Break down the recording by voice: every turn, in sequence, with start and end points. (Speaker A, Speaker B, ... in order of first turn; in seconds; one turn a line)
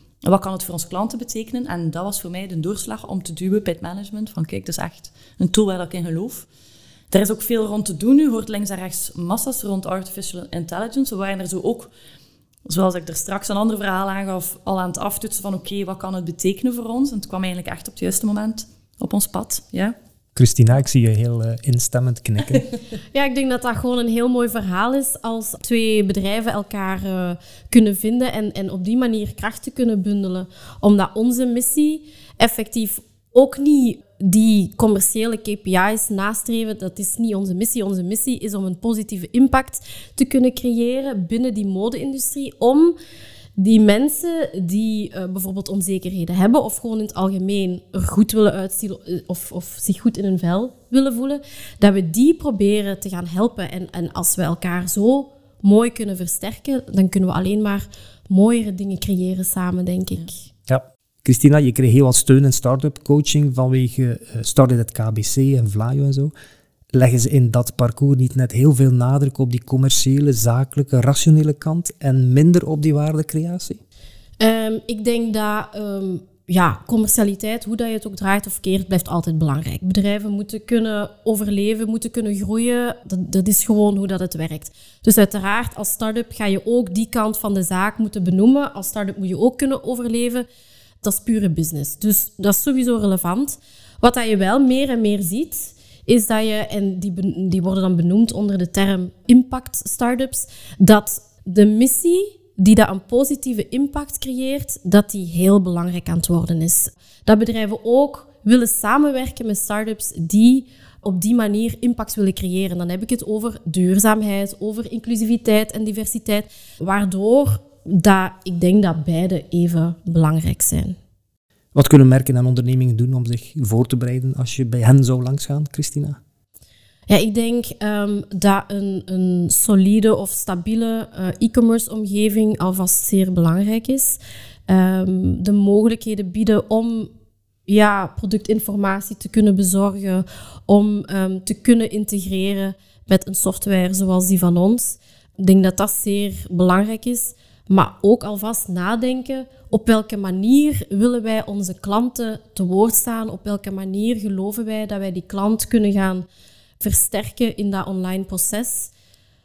Speaker A: 0.2-6.5
Speaker A: 7.1-11.9
Speaker A: 12.6-19.9
Speaker B: 20.4-22.6
Speaker C: 23.1-42.9
Speaker C: 43.6-60.4
Speaker B: 60.7-66.3
Speaker B: 66.9-73.8
Speaker C: 74.4-90.5
Speaker C: 91.0-121.0
Speaker B: 121.7-126.2
Speaker C: 127.1-137.1
Speaker C: 137.7-156.2
Speaker C: 156.8-158.9